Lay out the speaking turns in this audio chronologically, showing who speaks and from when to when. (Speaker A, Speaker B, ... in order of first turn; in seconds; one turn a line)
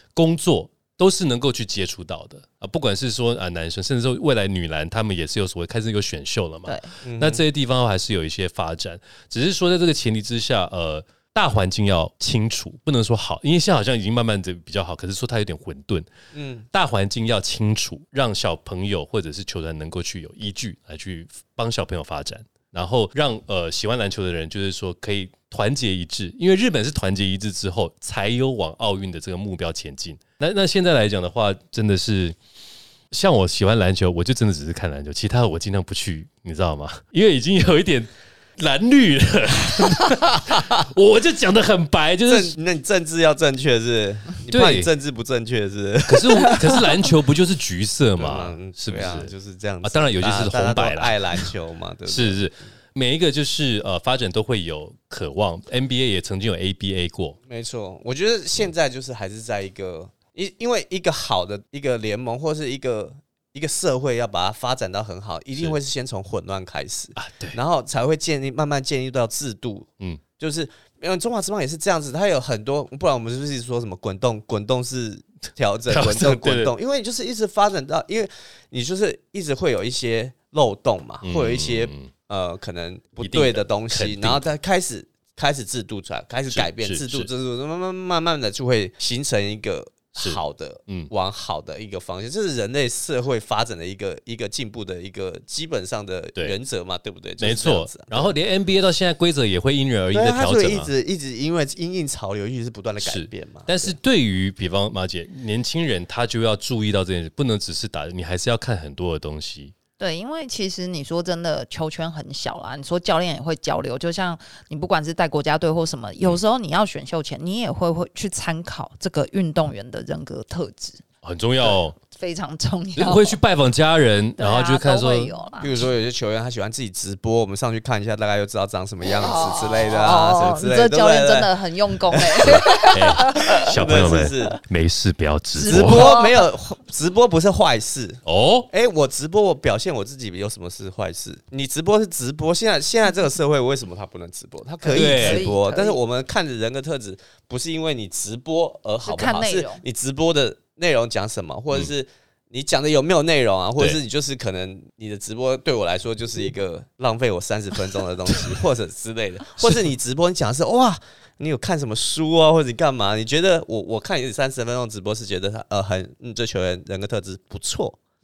Speaker A: 0.1-16.1
Speaker B: 6.7-6.9
Speaker C: 7.0-7.4
Speaker C: 16.3-16.7
Speaker A: 16.7-32.4
Speaker A: 33.1-42.5
Speaker C: 42.3-47.0
Speaker A: 44.5-44.9
Speaker A: 46.1-49.3
Speaker C: 48.2-52.4
Speaker A: 49.8-51.5
Speaker A: 52.1-57.4
Speaker C: 57.5-98.3
Speaker A: 65.5-65.8
Speaker A: 67.2-67.6
Speaker A: 75.9-76.7
Speaker A: 81.2-82.1
Speaker A: 83.2-84.4
Speaker A: 86.5-87.3
Speaker A: 90.2-91.1
Speaker A: 97.4-100.9
Speaker C: 100.1-104.0
Speaker A: 103.0-109.7
Speaker B: 110.0-121.0
Speaker A: 121.2-122.0
Speaker B: 122.1-123.4
Speaker A: 123.0-125.3
Speaker B: 124.4-125.8
Speaker C: 125.6-131.5
Speaker B: 129.1-133.6
Speaker C: 132.1-134.6
Speaker A: 132.4-136.1
Speaker B: 135.6-136.5
Speaker C: 135.6-168.0
Speaker A: 138.3-138.7
Speaker B: 144.8-146.0
Speaker A: 144.9-145.6
Speaker B: 149.0-149.8